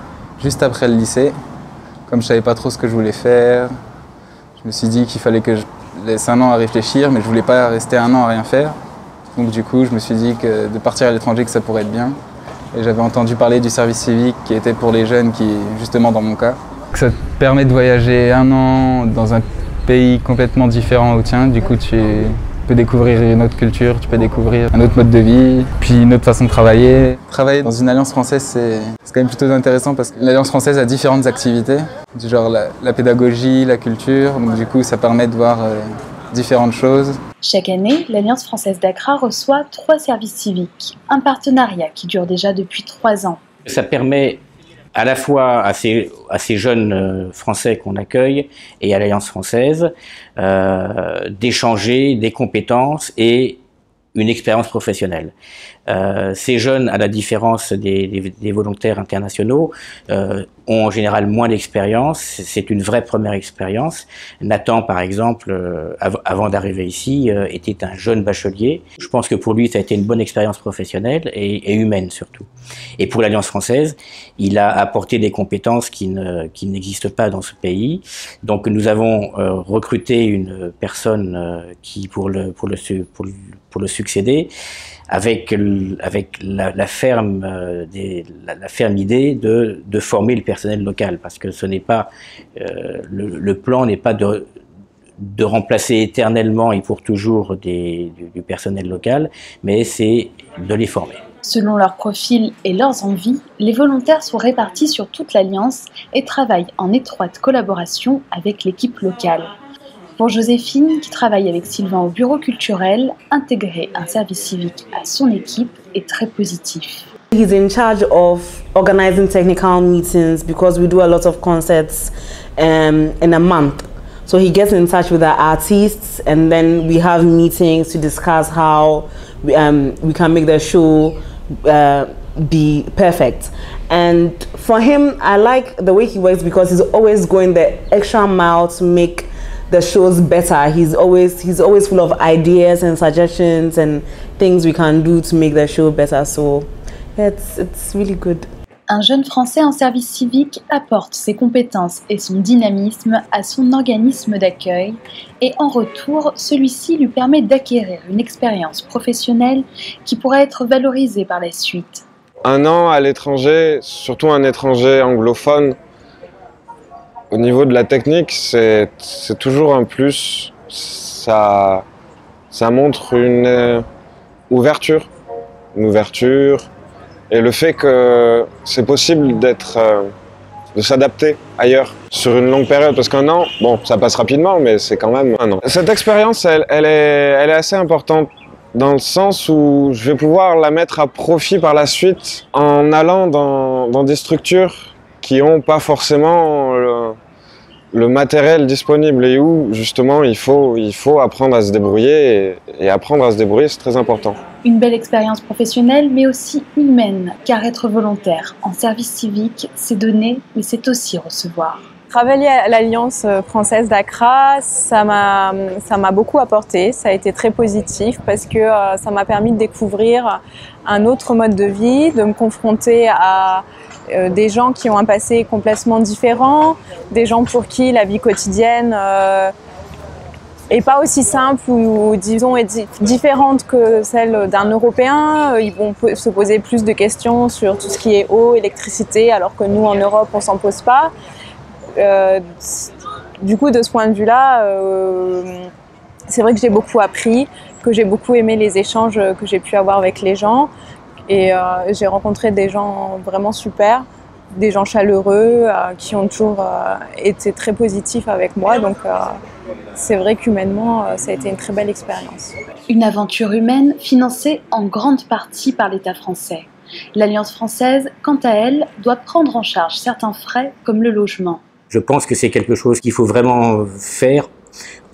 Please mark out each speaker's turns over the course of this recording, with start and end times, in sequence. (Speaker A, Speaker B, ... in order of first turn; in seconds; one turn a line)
Speaker A: 0.4-1.3
Speaker A: 2.1-3.7
Speaker A: 4.6-8.7
Speaker A: 9.3-12.2
Speaker A: 12.7-37.2
Speaker B: 37.4-43.4
Speaker C: 43.7-44.4
Speaker C: 45.0-53.6
Speaker C: 54.1-55.3
Speaker C: 55.9-72.5
Speaker C: 73.0-84.5
Speaker C: 85.1-94.5
Speaker C: 95.2-101.2
Speaker B: 101.5-109.5
Speaker B: 110.2-117.1
Speaker D: 117.3-148.5
Speaker B: 148.9-162.0
Speaker E: 162.4-165.8
Speaker E: 167.3-171.8
Speaker E: 172.5-173.8
Speaker E: 174.5-175.1
Speaker E: 175.8-176.7
Speaker E: 177.3-180.1
Speaker E: 180.8-197.2
Speaker E: 197.9-204.4
Speaker B: 204.6-211.9
Speaker F: 212.1-229.5
Speaker F: 230.7-241.1
Speaker F: 242.0-242.9
Speaker F: 243.4-245.7
Speaker F: 246.3-250.7
Speaker F: 251.3-259.4
Speaker F: 259.9-262.5
Speaker B: 262.9-271.6
Speaker C: 271.9-274.5